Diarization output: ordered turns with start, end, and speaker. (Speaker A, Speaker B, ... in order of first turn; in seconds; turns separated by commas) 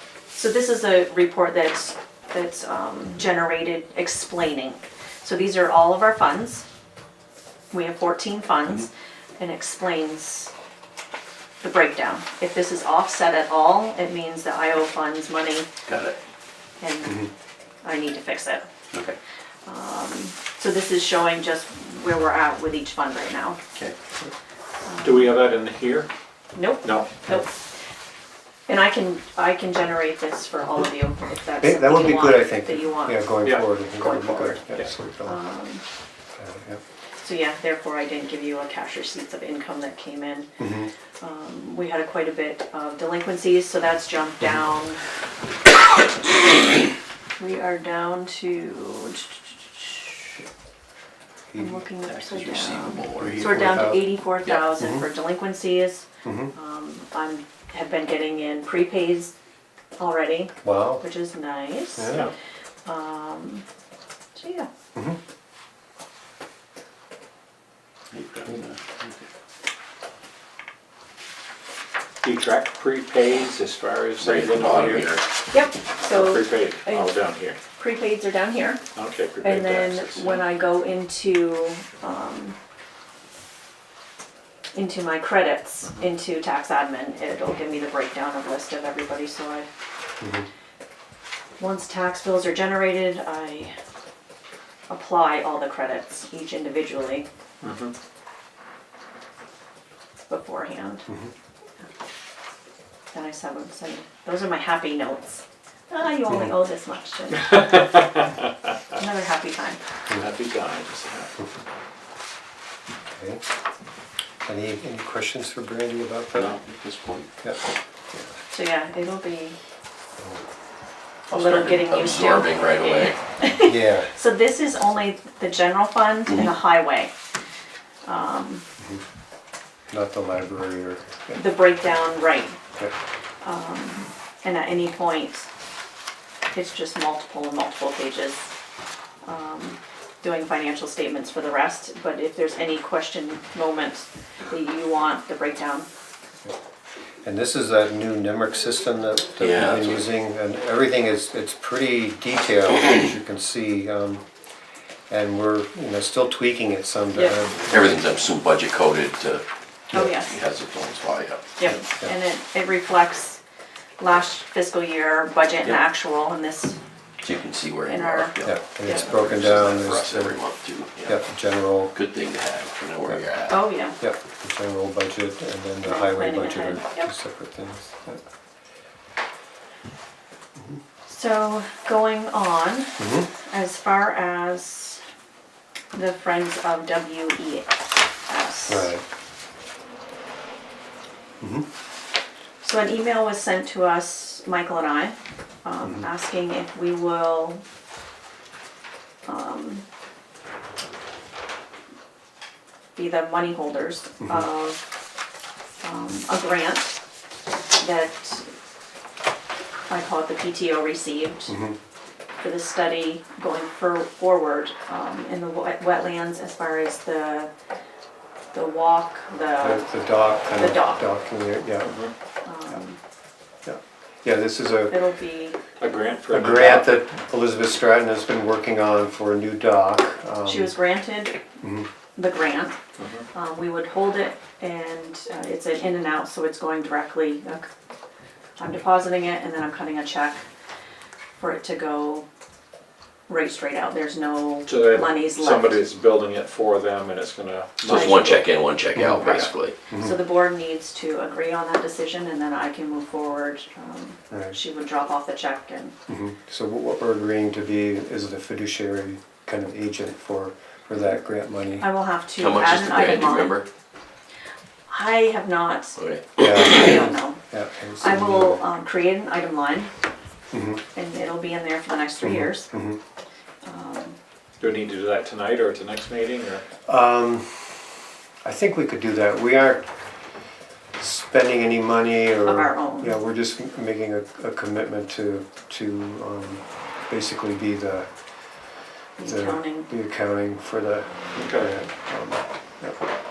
Speaker A: 0.3-6.6, Speaker A: 7.7-10.5, Speaker A: 11.6-15.7, Speaker B: 15.8-16.2, Speaker A: 16.8-17.3, Speaker A: 17.8-18.6, Speaker B: 18.9-19.1, Speaker A: 19.6-23.6, Speaker A: 24.9-25.4, Speaker C: 25.0-26.1, Speaker A: 26.5-27.5, Speaker C: 26.8-27.2, Speaker A: 28.7-33.3, Speaker D: 31.6-35.4, Speaker A: 33.9-34.6, Speaker A: 35.2-35.8, Speaker D: 36.4-36.8, Speaker A: 37.2-40.6, Speaker D: 40.6-40.9, Speaker A: 41.2-45.0, Speaker A: 47.4-50.3, Speaker D: 51.5-51.8, Speaker A: 51.5-59.3, Speaker B: 52.1-53.8, Speaker D: 53.2-54.1, Speaker D: 54.8-55.0, Speaker D: 56.2-56.5, Speaker A: 60.0-62.2, Speaker D: 60.6-61.0, Speaker D: 62.0-62.3, Speaker A: 62.8-63.6, Speaker A: 64.3-64.7, Speaker B: 68.1-69.2, Speaker C: 72.2-75.2, Speaker B: 74.2-75.3, Speaker A: 75.5-77.2, Speaker C: 76.0-77.6, Speaker A: 77.8-78.8, Speaker C: 78.9-80.4, Speaker A: 79.4-82.6, Speaker A: 84.7-89.7, Speaker D: 90.2-90.5, Speaker A: 91.6-93.7, Speaker A: 94.9-97.3, Speaker C: 97.6-97.9, Speaker A: 100.3-101.1, Speaker A: 103.1-107.9, Speaker C: 107.4-108.8, Speaker A: 109.0-109.8, Speaker C: 110.1-111.4, Speaker D: 113.1-113.4, Speaker D: 114.4-116.5, Speaker B: 116.3-117.3, Speaker A: 118.5-119.6, Speaker B: 121.3-123.2, Speaker A: 121.3-127.1, Speaker D: 123.6-124.1, Speaker A: 128.0-128.6, Speaker D: 129.9-131.4, Speaker A: 131.3-132.6, Speaker A: 133.4-135.5, Speaker A: 136.5-138.5, Speaker A: 139.2-145.9, Speaker D: 147.2-154.2, Speaker B: 149.4-150.1, Speaker D: 155.1-158.0, Speaker B: 157.7-159.4, Speaker A: 159.9-160.3, Speaker B: 160.0-161.5, Speaker A: 161.6-163.4, Speaker A: 164.0-166.8, Speaker B: 167.2-171.2, Speaker A: 167.8-169.1, Speaker D: 168.4-170.4, Speaker D: 171.0-171.9, Speaker B: 171.9-173.7, Speaker A: 173.5-174.0, Speaker D: 174.0-178.2, Speaker A: 175.8-177.1, Speaker A: 181.1-185.0, Speaker D: 183.0-183.3, Speaker A: 185.9-188.9, Speaker D: 188.7-189.0, Speaker D: 191.4-191.7, Speaker A: 192.6-197.6, Speaker A: 199.2-199.8, Speaker A: 202.9-204.9, Speaker A: 205.8-207.0, Speaker A: 207.8-208.5, Speaker A: 209.9-211.6, Speaker D: 211.5-211.8, Speaker A: 212.4-217.5, Speaker A: 218.5-219.9, Speaker D: 219.6-221.9, Speaker A: 220.5-221.0, Speaker C: 221.8-222.1, Speaker A: 222.4-223.0, Speaker D: 223.6-225.0, Speaker A: 224.9-225.6, Speaker C: 225.8-226.9, Speaker D: 226.3-230.8, Speaker A: 230.4-231.4, Speaker D: 231.6-231.9, Speaker A: 232.2-232.8, Speaker C: 233.0-233.2, Speaker A: 233.3-237.7, Speaker A: 238.6-240.4, Speaker A: 241.4-242.2, Speaker A: 243.3-245.8, Speaker C: 244.7-248.4, Speaker B: 247.8-249.8, Speaker A: 247.9-248.3, Speaker D: 248.9-250.2, Speaker A: 249.9-255.9, Speaker D: 254.3-254.6, Speaker D: 256.1-261.9, Speaker A: 261.8-263.6, Speaker B: 262.4-263.7, Speaker A: 264.9-267.4, Speaker B: 266.0-266.9, Speaker D: 266.4-268.6, Speaker A: 268.0-269.9, Speaker D: 270.5-270.8, Speaker A: 270.9-272.7, Speaker D: 272.2-273.0, Speaker A: 273.6-274.2, Speaker C: 274.6-276.6, Speaker D: 276.9-277.7, Speaker D: 278.4-279.9, Speaker D: 281.0-288.1, Speaker A: 282.4-283.2, Speaker A: 289.2-289.9, Speaker D: 289.2-293.0, Speaker C: 291.4-291.7